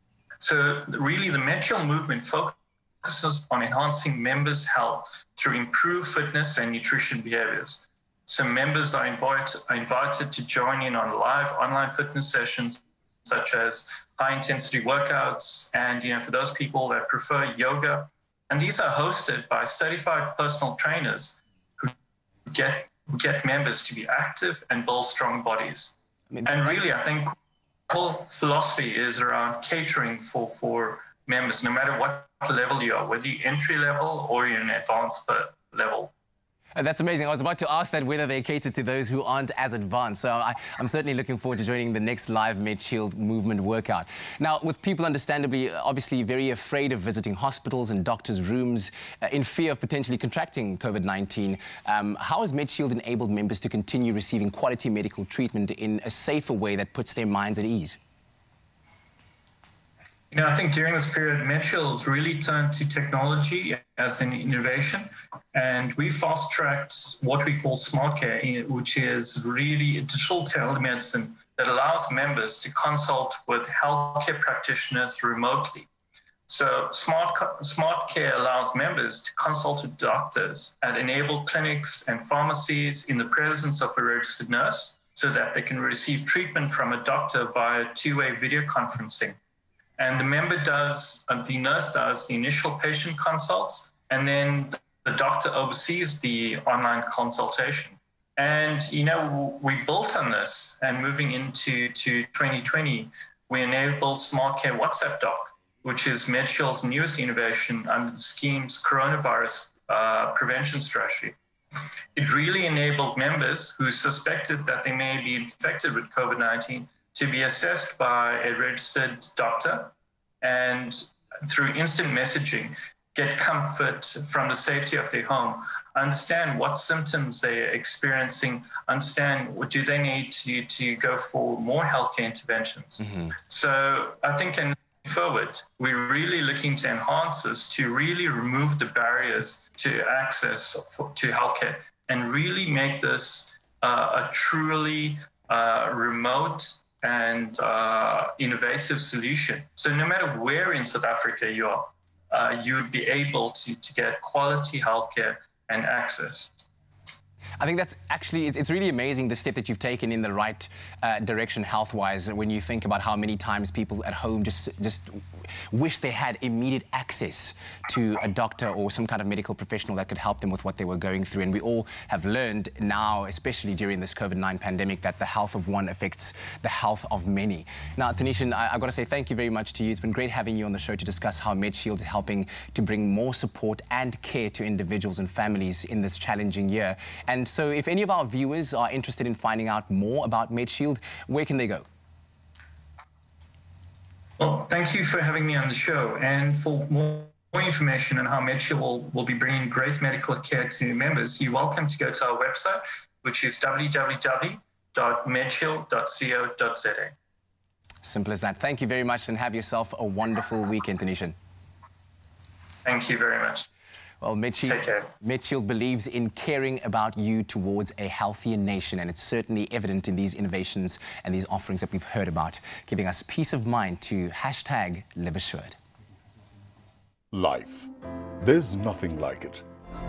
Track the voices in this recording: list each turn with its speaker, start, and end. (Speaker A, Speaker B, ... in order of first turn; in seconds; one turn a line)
Speaker A: 0.4-21.9
Speaker A: 22.5-27.3
Speaker A: 27.9-36.1
Speaker B: 36.8-58.0
Speaker A: 60.3-75.9
Speaker A: 76.5-89.4
Speaker A: 90.0-111.3
Speaker A: 112.2-156.7
Speaker B: 157.6-191.8
Speaker A: 194.4-207.1
Speaker B: 208.0-211.3
Speaker A: 212.8-213.7
Speaker B: 214.2-225.8
Speaker A: 214.6-215.1
Speaker C: 227.3-229.6